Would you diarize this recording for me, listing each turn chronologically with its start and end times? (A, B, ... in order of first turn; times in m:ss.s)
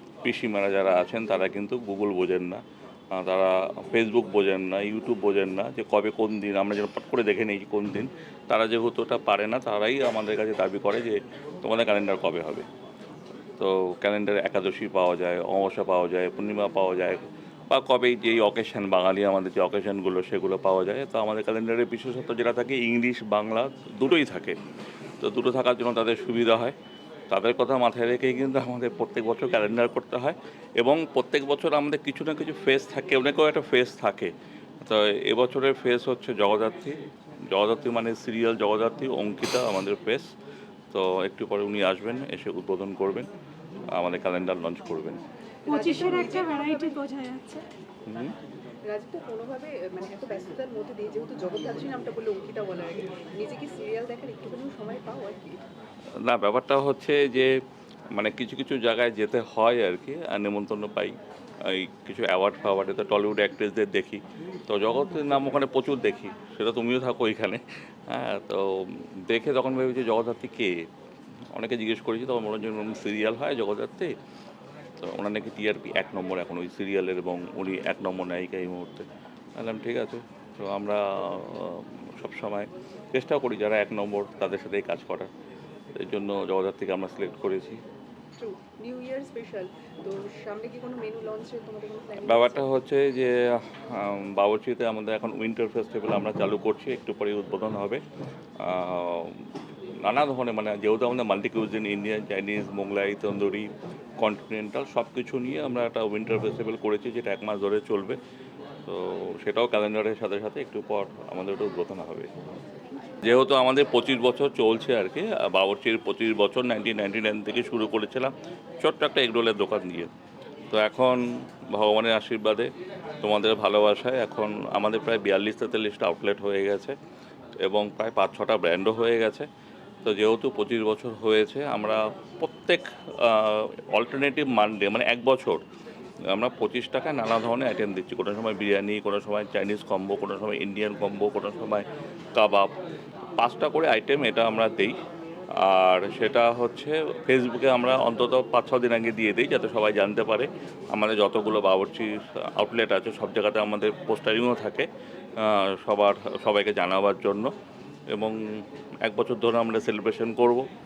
0:00.2-0:02.6 A
0:03.1-0:12.7 A
0:13.6-0:24.6 A
0:25.2-0:26.8 A
0:27.3-0:34.3 A
0:34.8-0:37.0 A
0:37.5-0:40.3 A
0:40.9-0:43.3 A
0:43.9-0:45.2 A
0:45.7-0:47.6 B
0:45.7-0:47.0 C
0:48.1-0:48.3 A
0:48.8-0:55.6 C
0:56.2-0:57.6 A
0:58.2-1:10.8 A
1:11.5-1:14.1 A
1:15.0-1:25.3 A
1:26.0-1:27.8 A
1:28.4-1:32.7 C
1:32.2-1:38.0 A
1:38.6-1:39.4 A
1:40.0-1:48.2 A
1:48.8-1:52.3 A
1:53.2-2:00.1 A
2:00.7-2:02.7 A
2:03.2-2:07.0 A
2:07.6-2:09.5 A
2:10.0-2:15.6 A
2:16.3-2:22.7 A
2:23.4-2:25.0 A
2:25.6-2:37.5 A
2:38.1-2:40.7 A